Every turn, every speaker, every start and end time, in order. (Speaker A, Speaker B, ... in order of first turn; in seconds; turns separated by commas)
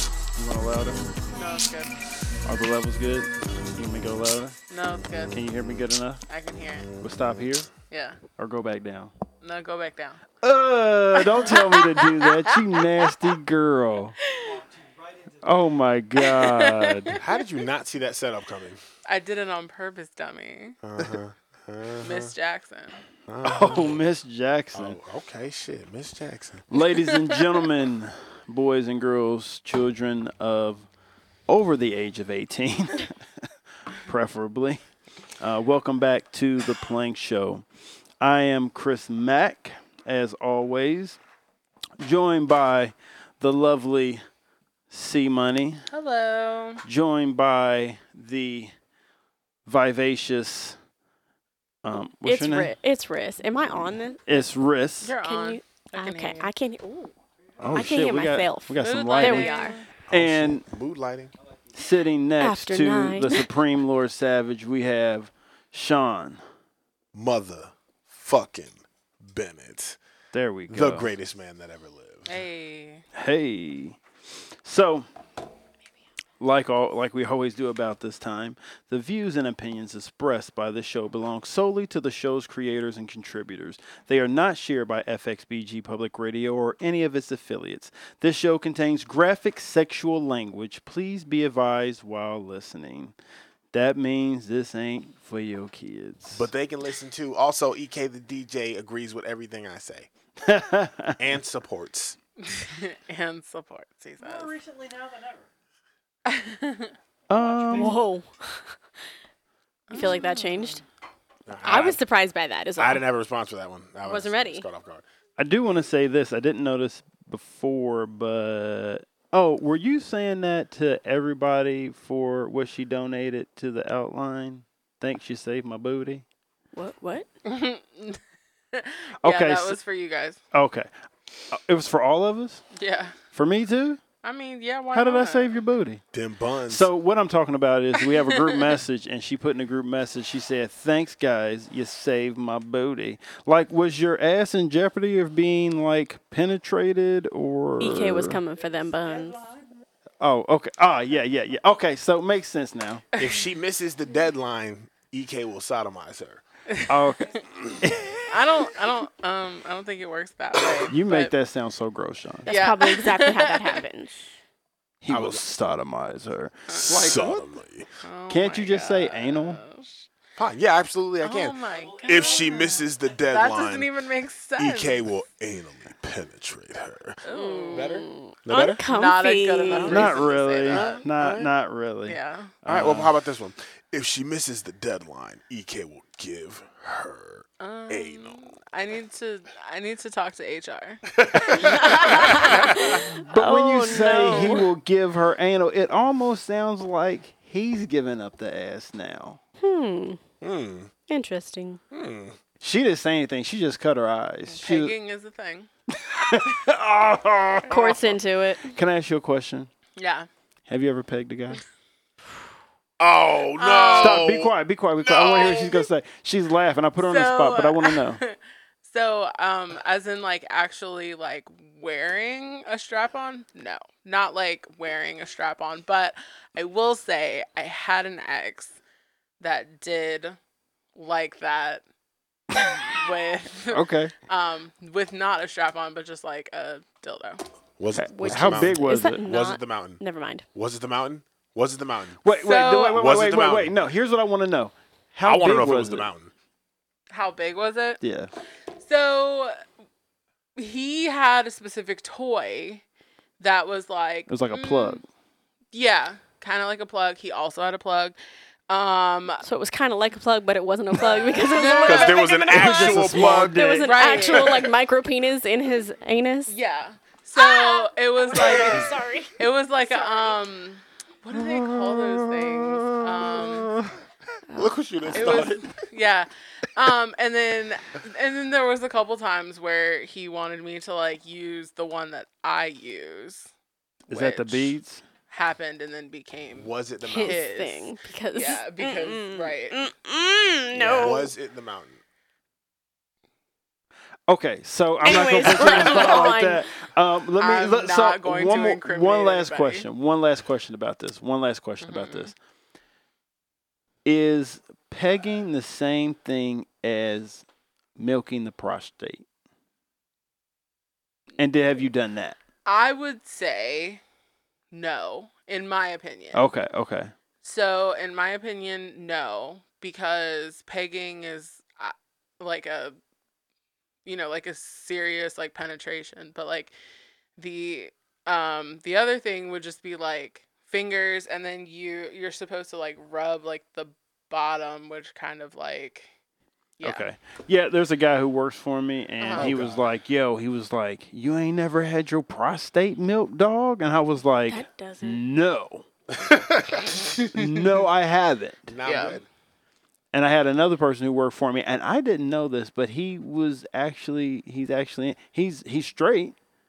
Speaker A: 0.3-1.1, Speaker B: 1.3-1.9, Speaker A: 2.4-4.6, Speaker B: 4.7-5.3, Speaker A: 5.3-6.2, Speaker B: 6.3-6.9, Speaker A: 7.0-7.7, Speaker B: 7.9-8.2, Speaker A: 8.4-9.1, Speaker B: 9.4-10.2, Speaker A: 10.4-14.2, Speaker B: 11.2-13.2, Speaker B: 14.3-14.6, Speaker A: 15.4-17.2, Speaker B: 16.2-17.5, Speaker C: 17.2-18.8, Speaker B: 19.1-20.8, Speaker C: 20.8-22.3, Speaker B: 22.0-23.0, Speaker C: 23.3-24.0, Speaker A: 23.4-25.0, Speaker C: 24.7-26.7, Speaker A: 26.7-30.9, Speaker B: 27.1-27.4, Speaker A: 31.5-33.1, Speaker A: 34.0-34.8, Speaker A: 35.4-37.6, Speaker A: 38.2-41.2, Speaker A: 42.0-44.2, Speaker A: 44.9-45.8, Speaker B: 45.9-46.8, Speaker A: 46.8-48.7, Speaker A: 49.7-50.8, Speaker A: 51.8-52.7, Speaker D: 52.2-54.2, Speaker A: 54.3-55.1, Speaker B: 55.0-56.5, Speaker D: 55.2-57.1, Speaker A: 57.6-59.6, Speaker D: 57.7-59.8, Speaker B: 58.8-59.9, Speaker C: 60.1-61.3, Speaker A: 60.1-60.7, Speaker A: 61.7-66.4, Speaker D: 62.4-63.5, Speaker C: 67.1-70.0, Speaker A: 70.3-71.1, Speaker C: 70.7-72.4, Speaker B: 72.3-73.0, Speaker A: 73.2-74.0, Speaker A: 74.6-75.1, Speaker A: 76.4-93.2, Speaker A: 93.7-96.5, Speaker C: 96.3-100.1, Speaker A: 100.4-101.2, Speaker C: 101.2-102.2, Speaker B: 102.4-104.6, Speaker A: 104.2-105.4, Speaker B: 106.3-107.0, Speaker A: 107.3-108.0, Speaker D: 107.7-108.8, Speaker B: 109.9-110.8, Speaker D: 109.9-110.8, Speaker C: 111.5-112.0, Speaker D: 111.6-113.0, Speaker C: 112.8-115.0, Speaker D: 114.0-114.7, Speaker A: 115.4-126.2, Speaker D: 126.7-127.3, Speaker B: 127.5-128.2, Speaker B: 128.7-130.4, Speaker A: 129.2-129.8, Speaker A: 130.5-130.9, Speaker A: 131.5-132.6, Speaker B: 132.7-133.2, Speaker A: 133.3-134.0, Speaker B: 134.2-135.6, Speaker A: 134.9-136.0, Speaker C: 136.1-136.9, Speaker A: 136.7-148.4, Speaker B: 138.1-138.6, Speaker D: 147.8-149.4, Speaker A: 150.2-153.0, Speaker C: 153.2-156.4, Speaker A: 156.9-158.3, Speaker B: 158.3-161.3, Speaker A: 160.9-162.5, Speaker B: 162.5-163.8, Speaker D: 162.5-164.2, Speaker A: 165.0-167.6, Speaker C: 165.1-165.4, Speaker B: 166.7-167.0, Speaker C: 166.7-167.9, Speaker B: 168.0-170.1, Speaker A: 168.3-169.6, Speaker C: 170.4-173.9, Speaker B: 171.2-172.7, Speaker B: 173.2-175.1, Speaker C: 174.6-178.8, Speaker B: 177.2-178.0, Speaker D: 177.3-180.1, Speaker B: 178.9-181.1, Speaker C: 179.7-181.5, Speaker A: 179.9-183.1, Speaker B: 182.1-182.5, Speaker C: 182.7-188.4, Speaker B: 187.6-193.0, Speaker C: 191.1-192.8, Speaker A: 191.3-191.8, Speaker D: 191.6-194.7, Speaker A: 193.3-199.4, Speaker B: 193.9-194.7, Speaker D: 199.6-200.2, Speaker C: 200.4-200.9, Speaker D: 201.1-201.8, Speaker C: 201.9-202.4, Speaker A: 202.6-204.9, Speaker B: 204.5-205.7, Speaker A: 205.9-207.8, Speaker B: 207.7-208.2, Speaker D: 207.7-208.7, Speaker A: 208.7-209.7, Speaker B: 210.0-210.3, Speaker A: 210.7-211.6, Speaker C: 213.0-215.9, Speaker B: 213.6-214.3, Speaker A: 214.0-218.2, Speaker B: 217.0-228.8, Speaker B: 229.4-230.4, Speaker B: 230.9-231.8, Speaker B: 232.6-237.4, Speaker A: 233.7-234.1, Speaker C: 237.8-240.0, Speaker A: 237.9-239.2, Speaker D: 238.1-240.4, Speaker C: 240.5-242.2, Speaker A: 242.2-246.1, Speaker B: 242.3-243.2, Speaker C: 242.9-243.7, Speaker C: 245.2-246.3, Speaker B: 247.1-248.0, Speaker A: 248.0-248.3, Speaker B: 248.8-249.6, Speaker B: 250.6-252.8, Speaker B: 253.4-255.0, Speaker A: 254.3-255.0, Speaker B: 255.7-258.2, Speaker B: 258.7-259.4, Speaker D: 259.4-266.5, Speaker B: 261.5-262.6, Speaker C: 261.8-264.7, Speaker A: 262.5-264.1, Speaker B: 263.8-264.7, Speaker B: 266.5-273.7, Speaker D: 267.4-269.4, Speaker D: 269.9-270.2, Speaker A: 271.4-274.0, Speaker D: 274.5-275.4, Speaker C: 274.6-275.7, Speaker B: 275.1-283.5, Speaker B: 284.1-284.8, Speaker A: 284.1-285.0, Speaker B: 285.3-289.9, Speaker C: 286.6-287.4, Speaker D: 287.1-291.3, Speaker C: 290.7-292.0, Speaker A: 294.3-302.4, Speaker D: 295.0-296.6, Speaker B: 295.4-296.4, Speaker B: 297.4-299.9, Speaker B: 301.8-302.3, Speaker A: 304.1-307.4, Speaker A: 308.0-309.3, Speaker A: 311.4-312.4, Speaker B: 312.6-314.0, Speaker B: 314.7-316.4, Speaker A: 316.3-317.1, Speaker B: 317.4-323.0, Speaker B: 324.1-326.7, Speaker B: 327.4-336.1, Speaker B: 336.8-337.1, Speaker A: 336.8-345.9, Speaker B: 339.2-339.6, Speaker C: 339.3-339.8, Speaker D: 344.5-345.2, Speaker C: 346.2-347.1, Speaker A: 347.3-348.7, Speaker C: 348.7-349.3, Speaker B: 348.8-349.2, Speaker A: 350.1-356.4